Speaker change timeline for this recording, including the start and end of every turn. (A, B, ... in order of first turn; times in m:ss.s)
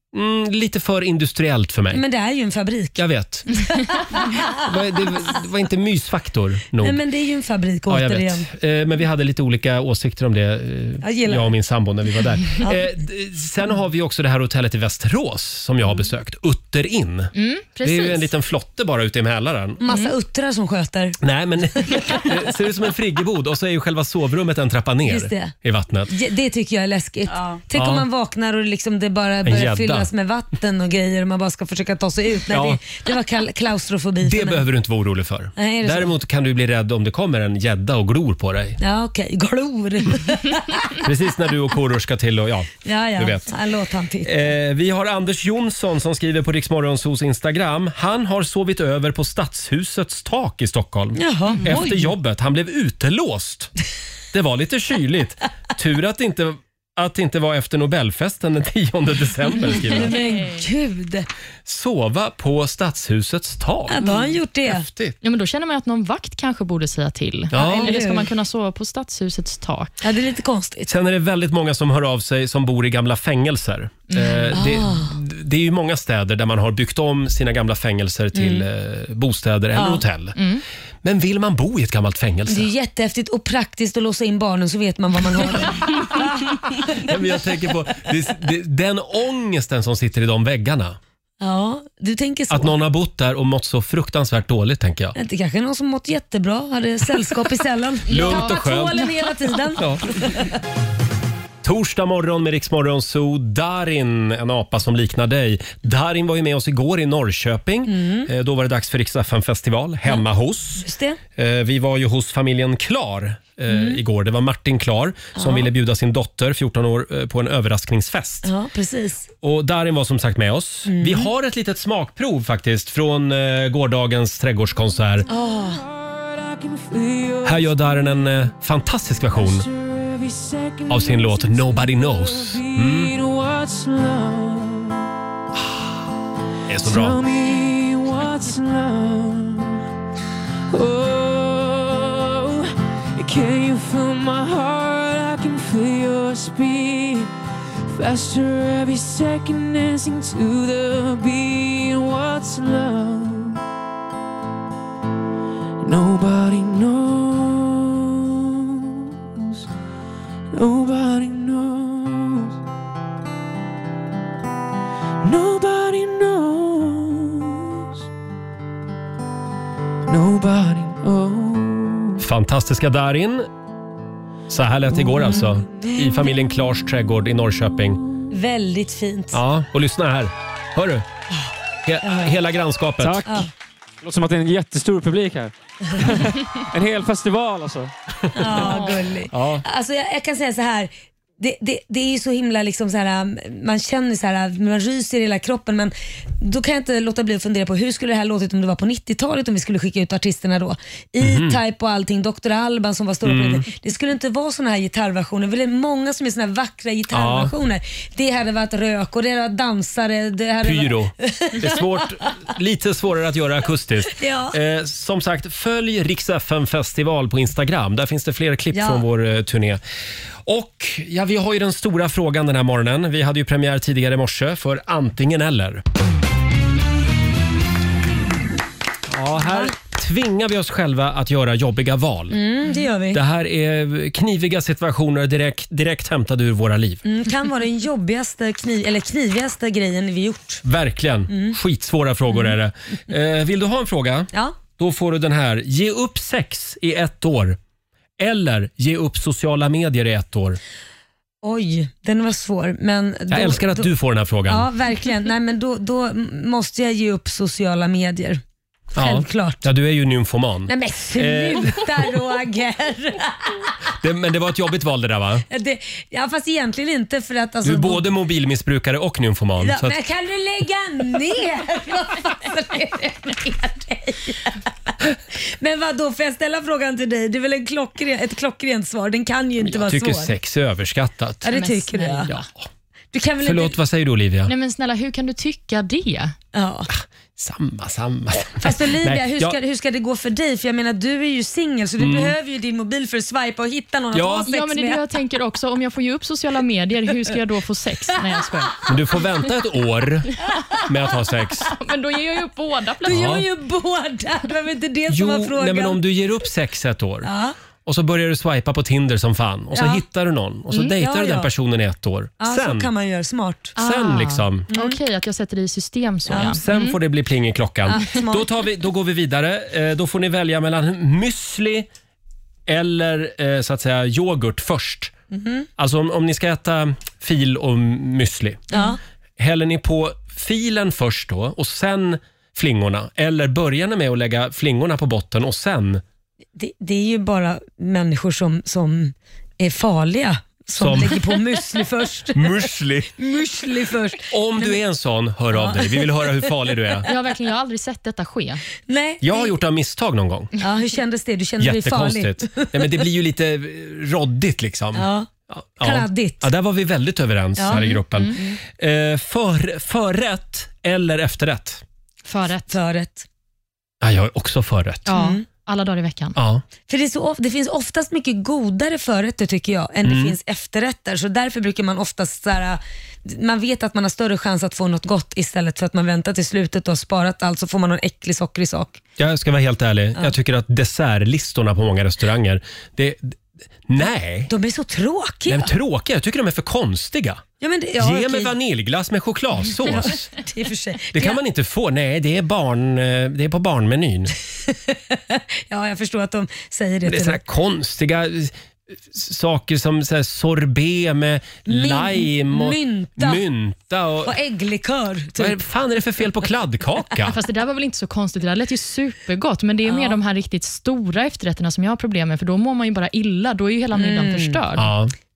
0:00.1-0:02.0 A
0:01.9-0:04.5 B
0:03.0-0:03.5 A
0:04.5-0:07.0 A
0:06.8-0:08.5 B
0:07.9-0:17.3 A
0:11.0-0:11.5 B
0:17.4-0:18.3 C
0:17.8-0:19.8 A
0:19.8-0:21.2 B
0:19.9-0:20.1 C
0:21.2-0:26.1 A
0:21.8-0:22.2 B
0:25.1-0:25.5 B
0:26.1-0:34.6 B
0:27.7-0:28.0 A
0:29.4-0:30.1 A
0:32.5-0:32.8 A
0:34.2-0:38.8 A
0:35.6-0:36.1 B
0:38.8-0:41.0 B
0:41.0-0:43.5 A
0:42.8-0:44.5 B
0:44.2-0:53.7 A
0:51.2-0:52.1 B
0:54.3-1:00.2 A
0:59.7-1:01.3 B
1:01.6-1:04.0 A
1:03.9-1:04.8 B
1:04.6-1:05.2 A
1:05.2-1:09.9 C
1:07.5-1:08.0 A
1:07.5-1:08.3 B
1:10.0-1:10.9 B
1:10.9-1:20.4 A
1:14.1-1:14.6 C
1:14.5-1:15.1 B
1:18.3-1:18.6 B
1:19.7-1:20.0 B
1:20.4-1:20.6 C
1:21.0-1:22.7 A
1:22.5-1:27.1 B
1:26.8-1:31.0 A
1:31.4-1:32.7 B
1:32.5-1:35.1 A
1:35.1-1:40.5 B
1:38.1-1:39.0 A
1:38.1-1:39.1 C
1:39.8-1:40.0 A
1:41.6-1:58.5 A
1:47.8-1:48.3 B
1:50.8-1:51.2 B
1:53.7-1:54.0 B
1:55.4-1:55.7 B
1:58.4-1:59.3 B
1:59.4-2:05.3 A
2:00.8-2:01.3 B
2:05.3-2:05.8 B
2:05.5-2:08.2 D
2:07.4-2:09.6 A
2:09.3-2:15.0 D
2:10.9-2:13.1 A
2:16.7-2:17.2 A
2:16.8-2:19.8 D
2:20.7-2:27.3 D
2:27.9-2:33.6 D
2:35.8-2:39.6 D
2:40.5-2:42.6 D
2:45.2-2:48.0 D
2:50.1-2:52.2 D
2:52.2-2:53.5 A
2:54.5-2:58.0 A
2:55.2-2:55.9 B
2:58.3-2:59.4 B
2:59.3-3:01.0 A
3:01.8-3:03.3 A
3:02.0-3:02.4 B
3:03.0-3:03.4 E
3:04.0-3:07.9 E
3:08.3-3:32.0 B
3:08.6-3:09.0 C
3:09.3-3:09.6 A
3:21.2-3:21.6 A
3:23.2-3:23.7 A
3:27.1-3:27.5 A
3:30.6-3:39.8 A
3:34.1-3:34.6 B
3:38.7-3:39.0 B
3:40.4-3:45.8 A
3:49.1-3:52.4 A
3:49.4-3:49.7 B
3:52.3-3:53.2 B
3:53.1-3:57.0 A
3:57.0-4:00.6 B
4:00.6-4:07.6 A
4:01.3-4:01.6 B
4:08.2-4:10.6 A
4:11.4-4:13.9 B
4:13.3-4:14.7 A
4:14.5-4:18.4 B
4:18.9-4:22.1 A
4:19.0-4:19.6 B
4:20.7-4:23.6 B
4:24.0-4:25.4 A
4:25.5-4:28.0 B
4:27.6-4:30.0 A
4:29.6-4:40.3 B
4:39.6-4:41.6 A
4:41.4-4:42.3 B
4:41.5-4:42.4 C
4:43.1-4:43.8 B
4:43.4-4:44.5 A
4:44.5-4:46.3 C
4:46.5-4:46.9 B
4:46.9-4:49.6 A
4:48.5-4:55.0 B
4:52.0-4:52.4 A
4:54.1-4:54.5 A
4:54.5-4:58.8 C
4:58.9-5:01.7 A
5:01.7-5:03.4 C
5:03.0-5:06.0 B
5:03.0-5:03.4 A
5:05.1-5:07.3 A
5:07.2-5:07.5 B
5:07.8-5:12.9 A
5:09.7-5:10.0 B
5:10.7-5:11.5 B
5:12.4-5:13.8 B
5:13.8-5:14.7 A
5:13.8-5:16.9 C
5:14.7-5:15.0 B
5:16.3-5:16.6 B
5:16.3-5:21.9 A
5:17.9-5:18.5 B
5:22.7-5:25.1 A
5:25.3-5:25.7 B
5:25.8-5:28.6 A
5:28.7-5:29.0 B
5:29.4-5:36.0 A
5:36.6-5:42.4 B
5:40.8-5:41.2 A
5:42.3-5:43.1 A
5:43.2-5:44.8 B
5:44.3-5:47.1 A
5:45.5-5:46.2 B
5:47.1-5:48.6 C
5:48.9-5:49.5 B
5:49.2-5:50.5 A
5:50.6-5:53.0 B
5:51.6-6:01.8 A
5:54.9-5:55.3 B
5:55.8-5:56.5 B
5:57.6-5:58.5 B
5:57.7-5:58.4 C
6:02.2-6:02.8 C
6:02.7-6:03.3 B
6:04.0-6:05.1 A
6:05.1-6:06.4 C
6:05.1-6:05.4 B
6:06.4-6:06.6 A
6:06.9-6:19.0 B
6:10.0-6:10.4 A
6:19.2-6:24.5 A
6:24.5-6:25.7 B
6:25.5-6:27.4 A
6:27.6-6:28.5 B
6:28.0-6:30.3 A
6:29.8-6:31.4 B
6:31.1-6:34.3 A
6:34.7-6:37.4 B
6:37.0-6:38.5 A
6:39.0-6:44.3 A
6:41.6-6:43.4 B
6:44.2-6:45.6 B
6:45.4-6:47.4 A
6:47.3-6:54.9 C
6:49.8-6:50.2 B
6:53.9-6:54.6 B
6:54.8-6:55.1 A